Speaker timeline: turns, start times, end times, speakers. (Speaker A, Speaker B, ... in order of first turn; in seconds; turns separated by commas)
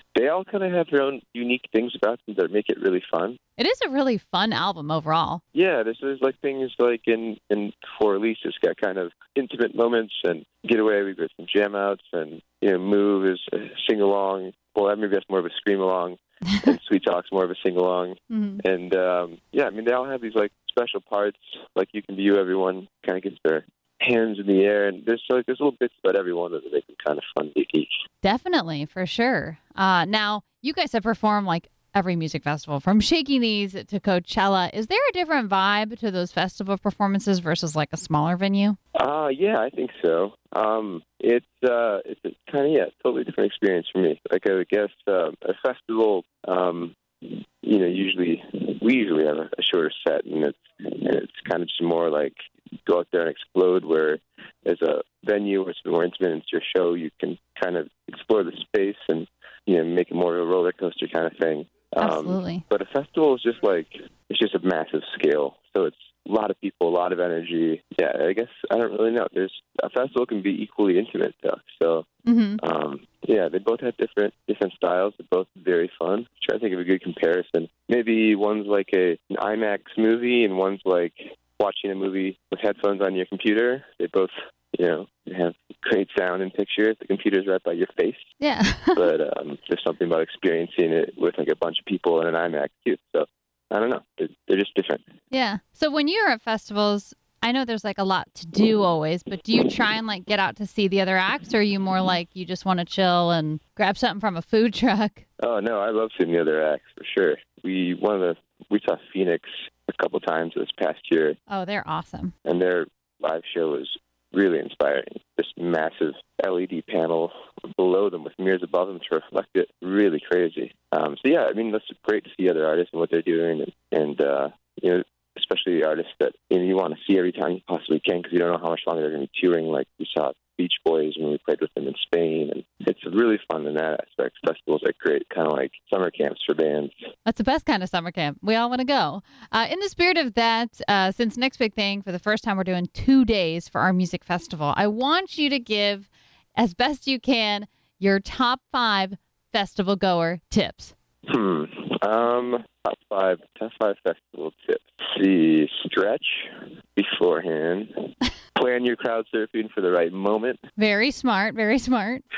Speaker A: 0.1-3.4, Speaker B: 3.6-5.4, Speaker A: 5.5-27.9, Speaker B: 18.3-18.6, Speaker B: 28.2-38.8, Speaker A: 39.0-72.1, Speaker B: 62.0-62.6, Speaker B: 72.2-72.6, Speaker A: 72.6-88.3, Speaker B: 88.4-89.1, Speaker A: 89.0-95.0, Speaker B: 95.3-105.2, Speaker A: 105.4-111.4, Speaker B: 111.5-112.3, Speaker A: 112.5-136.9, Speaker B: 137.3-150.9, Speaker A: 151.3-160.6, Speaker B: 160.8-162.2